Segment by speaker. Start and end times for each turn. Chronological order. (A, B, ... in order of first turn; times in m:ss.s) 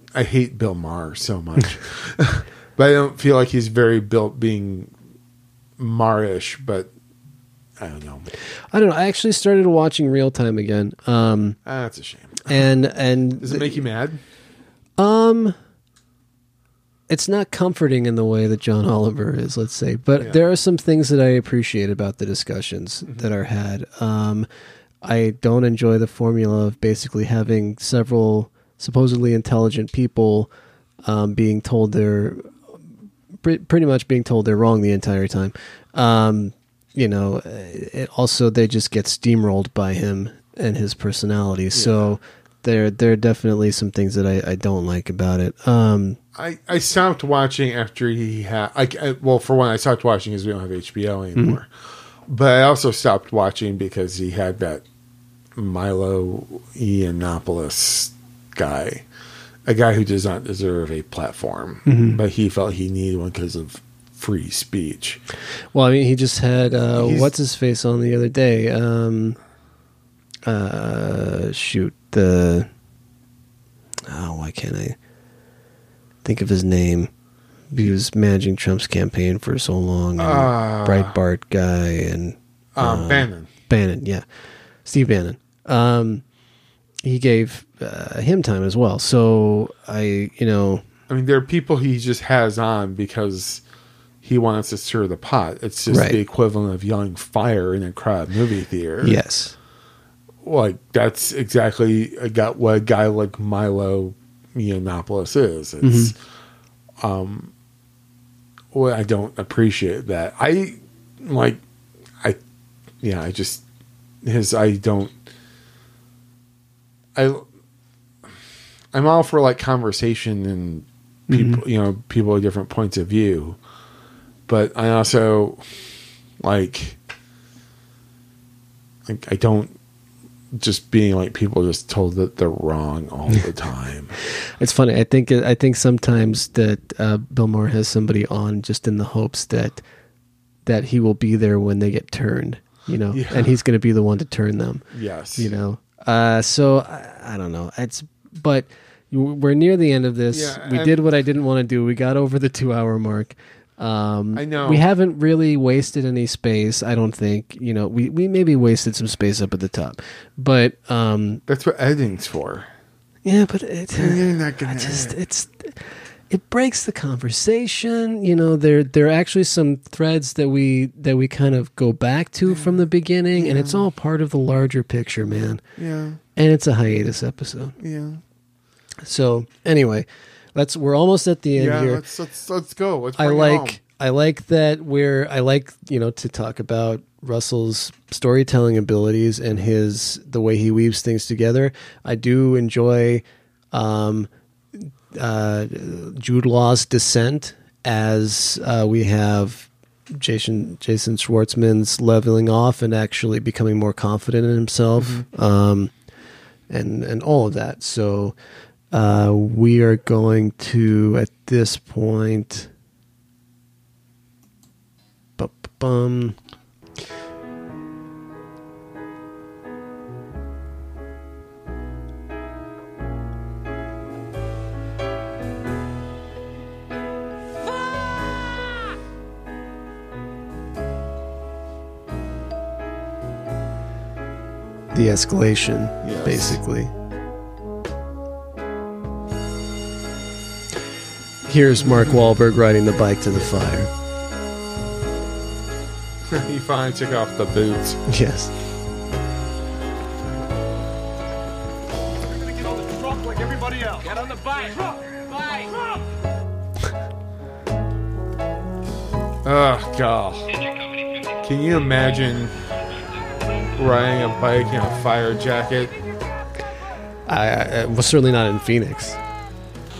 0:00.1-0:04.9 A
0:05.8-0:06.9 A
0:07.8-0:08.3 A
0:08.7-0:11.6 B
0:11.6-0:12.6 A
0:12.5-0:13.8 B
0:13.4-0:14.2 A
0:15.0-0:15.6 B
0:17.1-0:24.5 B
0:25.0-0:30.5 B
0:31.0-0:32.5 B
0:33.4-0:46.2 B
0:41.7-0:42.1 A
0:46.3-0:51.7 A
0:52.3-0:54.8 A
0:55.6-0:59.0 A
0:59.6-1:05.2 A
1:01.8-1:02.2 B
1:05.7-1:09.4 B
1:06.9-1:07.3 A
1:10.4-1:12.7 B
1:14.1-1:15.0 B
1:16.2-1:17.1 B
1:17.7-1:24.2 B
1:20.2-1:21.2 A
1:22.8-1:23.5 A
1:24.8-1:26.2 B
1:27.0-1:30.8 B
1:31.1-1:33.6 A
1:34.2-1:39.2 A
1:35.9-1:36.2 B
1:39.0-1:39.6 B
1:40.4-1:46.2 A
1:45.8-1:46.1 B
1:47.0-1:47.5 A
1:48.7-1:51.6 A
1:53.0-1:53.6 A
1:54.2-1:55.2 A
1:57.1-1:57.4 A
1:58.9-2:03.6 A
2:01.3-2:01.6 B
2:04.5-2:05.6 A
2:06.4-2:07.0 A
2:09.0-2:09.8 A
2:10.5-2:14.2 A
2:14.6-2:19.8 B
2:20.6-2:24.8 B
2:23.1-2:23.5 A
2:24.9-2:25.5 A
2:25.4-2:41.4 B
2:30.3-2:31.0 A
2:34.3-2:34.8 A
2:41.5-2:42.7 A
2:43.2-2:55.6 B
2:43.9-2:45.1 A
2:52.4-2:52.8 A
2:53.3-2:53.8 A
2:55.8-2:56.2 A
2:56.4-2:57.8 B
2:57.8-2:58.2 A
2:59.0-3:02.0 B
3:01.6-3:03.8 A
3:03.2-3:25.9 B
3:25.0-3:25.2 A
3:26.7-3:28.4 B
3:28.9-3:32.7 B
3:35.4-3:36.4 B
3:54.9-3:56.9 B
3:56.0-3:56.6 A
4:01.5-4:03.9 B
4:01.8-4:02.2 A
4:06.3-4:08.0 A
4:08.1-4:08.5 B
4:12.3-4:15.8 C
4:19.4-4:20.5 A
4:21.4-4:22.5 A
4:23.8-4:25.9 A
4:27.3-4:29.2 B